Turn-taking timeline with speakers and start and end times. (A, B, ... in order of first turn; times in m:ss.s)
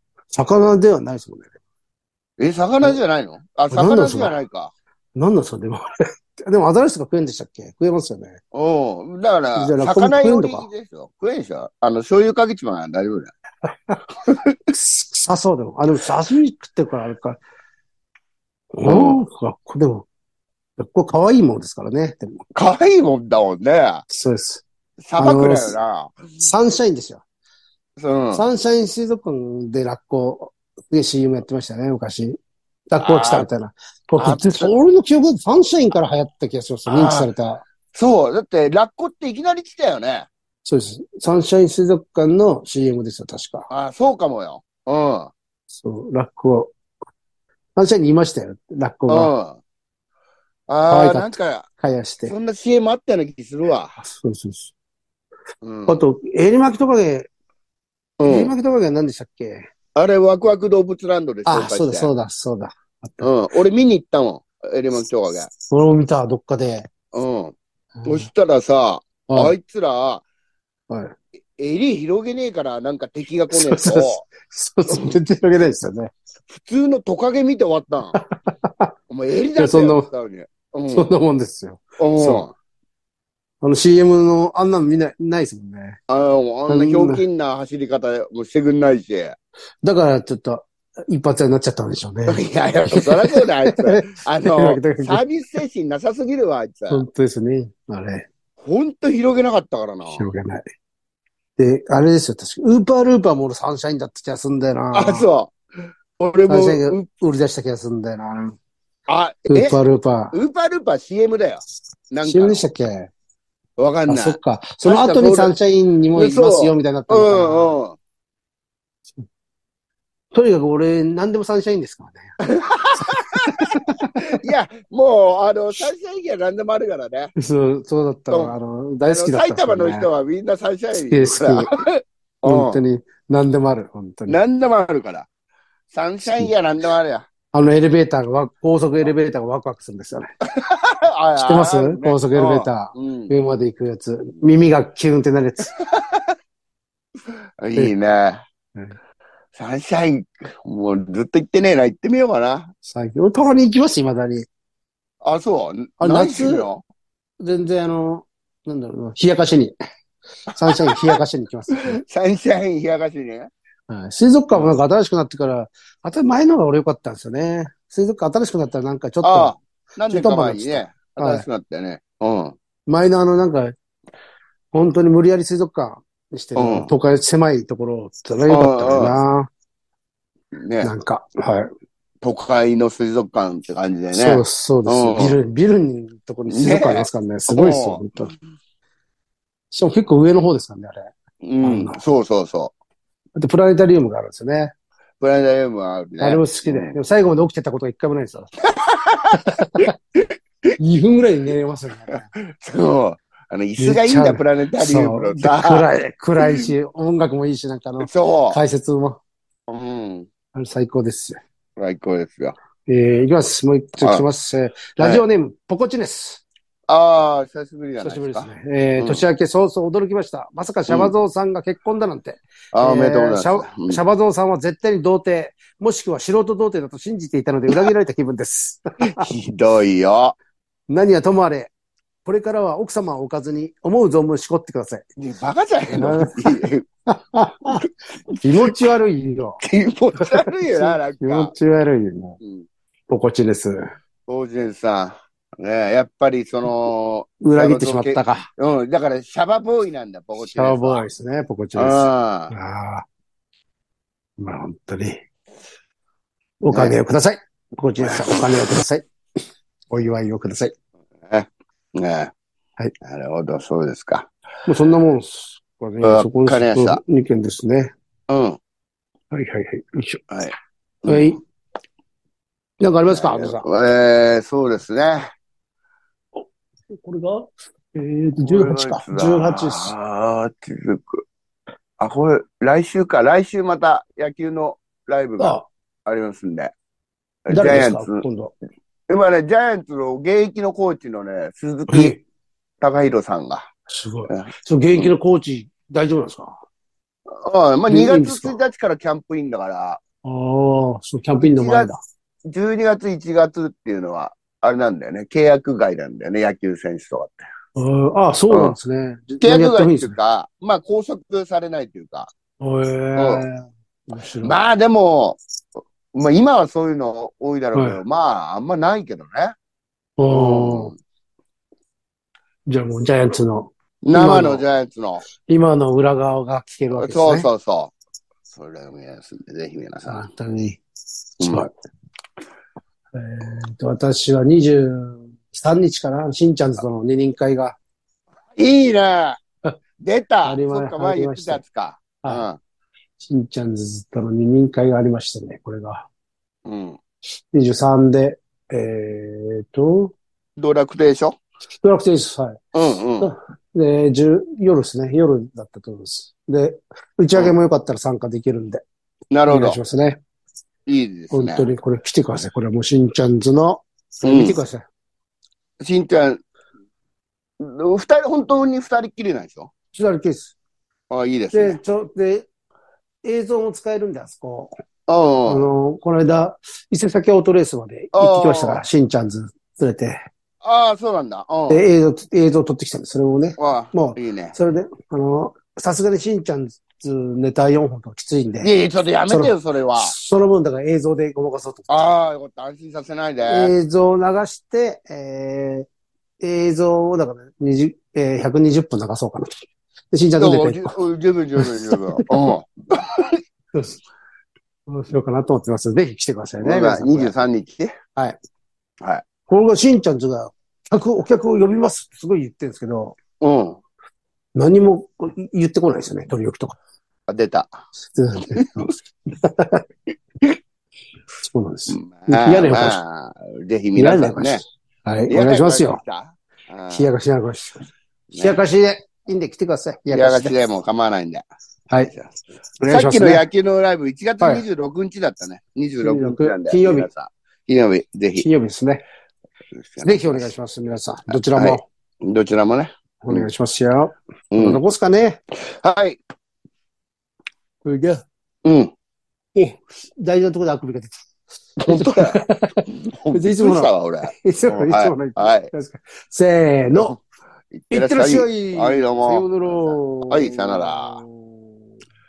0:00.3-0:01.5 A
0:02.4-0:04.7 B
0:03.7-0:04.4 A
0:05.2-0:08.4 A
0:08.5-0:13.3 B
0:09.6-0:10.7 A
0:14.2-0:14.6 B
0:14.7-0:17.4 A
0:18.8-0:20.1 A
0:18.9-0:19.2 B
0:20.8-0:22.4 A
0:22.5-0:24.0 B
0:24.1-0:24.6 A
0:25.0-0:26.3 B
0:25.2-0:25.8 A
0:26.4-0:27.2 A
0:28.0-0:28.4 B
0:28.3-0:32.4 A
0:32.9-0:37.6 A
0:33.0-0:33.4 B
0:34.2-0:34.7 B
0:36.9-0:37.3 B
0:37.9-0:40.3 B
0:40.6-0:43.7 A
0:43.7-0:45.3 B
0:45.7-0:46.7 A
0:47.8-0:49.3 A
0:49.1-0:49.6 B
0:50.7-0:51.7 B
0:50.9-0:52.3 A
0:52.2-0:54.0 B
0:54.0-0:54.7 A
0:55.6-0:56.0 B
0:55.9-0:57.3 A
0:58.2-0:58.5 B
0:58.2-0:59.6 A
0:59.9-1:02.1 B
1:01.5-1:03.3 A
1:03.2-1:05.5 B
1:05.7-1:06.9 A
1:07.1-1:10.2 B
1:09.3-1:09.6 A
1:10.9-1:11.1 A
1:11.6-1:14.2 B
1:13.5-1:16.1 A
1:14.9-1:15.2 B
1:16.5-1:18.2 B
1:18.1-1:18.9 A
1:19.1-1:21.1 B
1:19.6-1:20.1 A
1:20.9-1:22.5 A
1:22.0-1:22.5 B
1:23.6-1:26.0 A
1:26.1-1:29.4 B
1:26.7-1:27.2 A
1:29.8-1:35.2 A
1:32.3-1:37.0 B
1:36.9-1:38.3 A
1:38.6-1:40.2 B
1:40.1-1:40.7 A
1:41.6-1:45.3 A
1:44.9-1:45.5 B
1:46.2-1:47.0 B
1:46.5-1:48.6 A
1:49.1-1:49.8 B
1:49.5-1:50.4 A
1:50.3-1:52.6 B
1:52.2-1:53.1 A
1:53.8-1:55.5 B
1:54.1-1:57.8 A
1:56.2-1:58.0 B
2:00.3-2:02.3 A
2:02.4-2:07.3 B
2:03.1-2:04.4 A
2:07.4-2:10.1 A
2:09.1-2:12.8 B
2:11.1-2:11.8 A
2:12.4-2:14.4 A
2:14.3-2:15.3 B
2:15.9-2:17.2 B
2:16.2-2:16.5 A
2:17.5-2:20.3 A
2:20.4-2:23.3 B
2:21.4-2:25.7 A
2:25.8-2:26.3 B
2:27.3-2:28.4 B
2:29.5-2:32.7 B
2:32.8-2:34.4 A
2:35.2-2:36.8 B
2:36.0-2:36.7 A
2:37.4-2:39.7 A
2:40.5-2:42.0 A
2:40.6-2:41.2 B
2:41.8-2:43.5 B
2:43.9-2:49.6 A
2:49.2-2:52.6 B
2:50.1-2:51.4 A
2:52.9-2:53.7 A
2:54.7-2:59.5 A
2:56.6-2:56.9 B
2:58.5-2:59.2 B
3:00.5-3:00.9 B
3:00.8-3:01.7 A
3:02.2-3:05.4 B
3:04.1-3:08.3 A
3:06.5-3:08.0 B
3:09.7-3:12.0 A
3:11.4-3:12.7 B
3:13.4-3:14.7 A
3:15.2-3:17.0 B
3:16.2-3:18.5 A
3:18.7-3:20.7 B
3:19.3-3:19.9 A
3:20.8-3:22.3 A
3:22.1-3:25.8 B
3:23.8-3:29.2 A
3:26.4-3:26.7 B
3:28.0-3:28.6 B
3:29.7-3:30.3 B
3:30.5-3:31.4 A
3:31.8-3:32.5 B
3:32.9-3:36.4 A
3:34.0-3:34.2 B
3:36.9-3:39.2 B
3:38.0-3:49.3 A
3:40.9-3:41.1 B
3:42.7-3:44.0 B
3:49.0-3:50.4 B
3:50.9-3:51.7 A
3:52.2-3:55.1 A
3:55.2-3:56.8 B
3:55.9-3:57.8 A
3:57.7-3:58.7 B
3:58.4-3:59.6 A
3:59.6-4:01.5 B
4:00.2-4:02.4 A
4:02.4-4:02.7 B
4:03.1-4:03.8 A
4:04.3-4:11.0 B
4:07.4-4:08.5 A
4:10.4-4:13.0 A
4:11.8-4:12.5 B
4:14.4-4:15.2 A
4:16.6-4:19.0 A
4:18.0-4:18.7 B
4:19.9-4:20.7 A
4:21.2-4:22.3 B
4:23.0-4:24.3 B
4:24.6-4:27.9 A
4:26.0-4:27.0 B
4:28.3-4:28.6 B
4:29.3-4:30.2 A
4:30.3-4:31.4 B
4:31.1-4:31.4 A
4:32.8-4:33.6 A
4:33.1-4:35.3 B
4:36.4-4:39.9 A
4:38.4-4:41.2 B
4:42.0-4:46.7 B
4:45.4-4:45.6 A
4:47.4-4:48.2 B
4:47.5-4:48.5 A
4:49.1-4:52.2 B
4:51.9-4:52.2 A
4:52.8-4:53.7 B
4:53.9-4:56.6 A
4:54.3-4:55.1 B
4:57.3-5:00.0 B
4:57.9-4:58.6 A
5:00.2-5:02.0 A
5:01.4-5:01.9 B
5:02.5-5:07.4 B
5:07.8-5:10.1 A
5:08.5-5:08.8 B
5:09.4-5:12.3 B
5:12.6-5:14.6 A
5:13.2-5:13.4 B
5:14.4-5:15.4 B
5:16.1-5:19.5 B
5:17.7-5:18.0 A
5:20.2-5:20.9 A
5:20.3-5:21.0 B
5:22.7-5:24.6 A
5:24.0-5:25.2 B
5:25.4-5:27.5 A
5:26.9-5:27.9 B
5:28.5-5:30.3 B
5:30.0-5:30.8 A
5:31.4-5:31.7 B
5:31.4-5:31.7 A
5:33.1-5:37.8 A
5:38.5-5:39.4 B
5:40.0-5:42.6 B
5:40.4-5:41.6 A
5:42.2-5:42.5 A
5:43.2-5:46.1 A
5:46.6-5:47.0 B
5:47.5-5:50.1 A
5:50.6-5:51.4 B
5:51.7-5:58.8 A
5:52.7-5:53.3 B
5:59.3-5:59.8 B
5:59.5-6:00.2 A
6:00.9-6:01.7 B
6:01.3-6:04.8 A
6:04.2-6:04.6 B
6:05.8-6:06.4 B
6:07.6-6:09.7 B
6:09.9-6:10.6 A
6:11.1-6:11.8 B
6:11.5-6:12.5 A
6:13.2-6:14.7 A
6:15.1-6:15.7 B
6:15.4-6:20.2 A
6:18.1-6:18.8 B
6:20.6-6:21.8 B
6:21.7-6:28.7 A
6:23.6-6:24.5 B
6:28.6-6:30.1 B
6:29.3-6:32.0 A
6:31.9-6:33.7 B
6:33.4-6:35.9 A
6:36.4-6:39.5 A
6:40.1-6:41.0 A
6:40.4-6:43.4 B
6:41.6-6:42.4 A
6:44.9-6:47.3 A
6:46.6-6:47.9 B
6:49.5-6:53.2 A
6:53.4-6:53.8 B
6:54.5-6:56.8 A
6:57.3-6:57.7 B
6:58.0-6:59.8 A
7:01.4-7:03.0 A
7:01.9-7:04.6 B
7:04.0-7:06.0 A
7:05.3-7:07.1 B
7:06.9-7:07.8 A
7:08.3-7:08.6 B
7:08.4-7:10.6 A
7:10.1-7:11.4 B
7:11.9-7:12.2 A
7:12.8-7:13.4 A
7:12.9-7:18.5 B
7:16.0-7:17.1 A
7:18.4-7:19.0 A
7:19.8-7:20.5 B
7:20.0-7:21.8 A
7:21.3-7:23.5 B
7:23.2-7:25.4 A
7:24.5-7:24.8 B
7:25.5-7:26.2 B
7:27.8-7:28.2 A
7:28.6-7:28.9 B
7:29.5-7:37.2 A
7:31.9-7:35.7 B
7:36.9-7:37.2 B
7:37.7-7:41.2 B
7:37.9-7:41.7 A